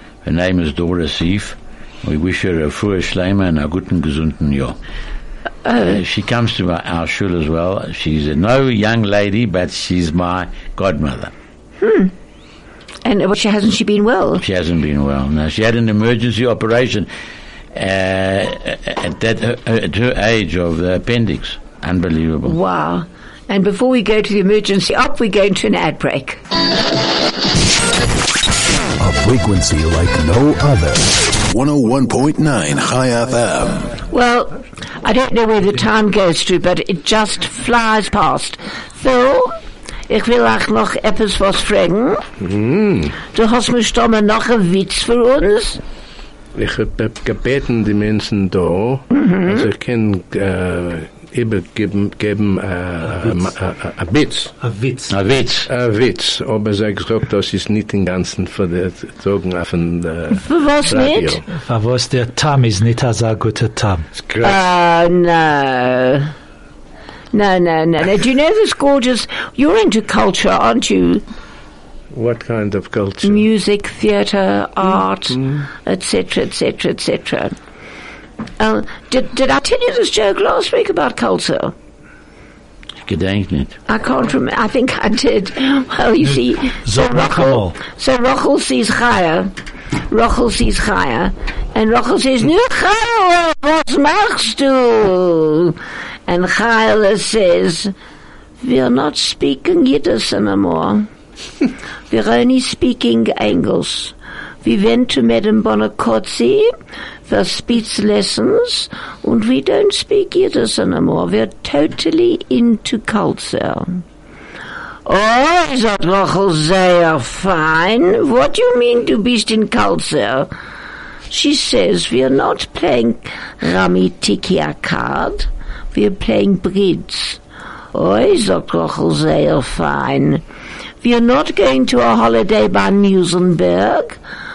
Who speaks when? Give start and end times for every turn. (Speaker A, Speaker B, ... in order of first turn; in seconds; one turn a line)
Speaker A: 0.2-4.8
Speaker B: 5.7-6.0
Speaker A: 5.8-11.3
Speaker B: 11.8-12.1
Speaker B: 13.1-14.4
Speaker A: 14.4-17.1
Speaker A: 17.7-22.6
Speaker B: 22.4-26.4
Speaker C: 29.0-34.0
Speaker B: 34.1-39.6
Speaker B: 40.1-42.2
Speaker D: 42.4-43.2
Speaker B: 43.3-45.8
Speaker D: 46.5-54.5
Speaker E: 54.6-55.1
Speaker A: 55.1-55.7
Speaker D: 55.7-61.4
Speaker B: 60.3-61.4
Speaker E: 61.5-64.1
Speaker D: 64.2-64.6
Speaker B: 64.4-66.3
Speaker B: 67.3-71.2
Speaker D: 72.1-73.5
Speaker B: 73.2-77.5
Speaker D: 75.3-75.6
Speaker B: 78.6-81.7
Speaker A: 83.0-83.8
Speaker B: 83.9-89.5
Speaker E: 86.2-87.8
Speaker B: 90.1-97.9
Speaker B: 98.6-101.1
Speaker B: 102.1-106.7
Speaker B: 107.3-114.0
Speaker B: 115.1-120.5
Speaker B: 121.3-127.4
Speaker B: 127.9-130.4
Speaker B: 131.0-134.2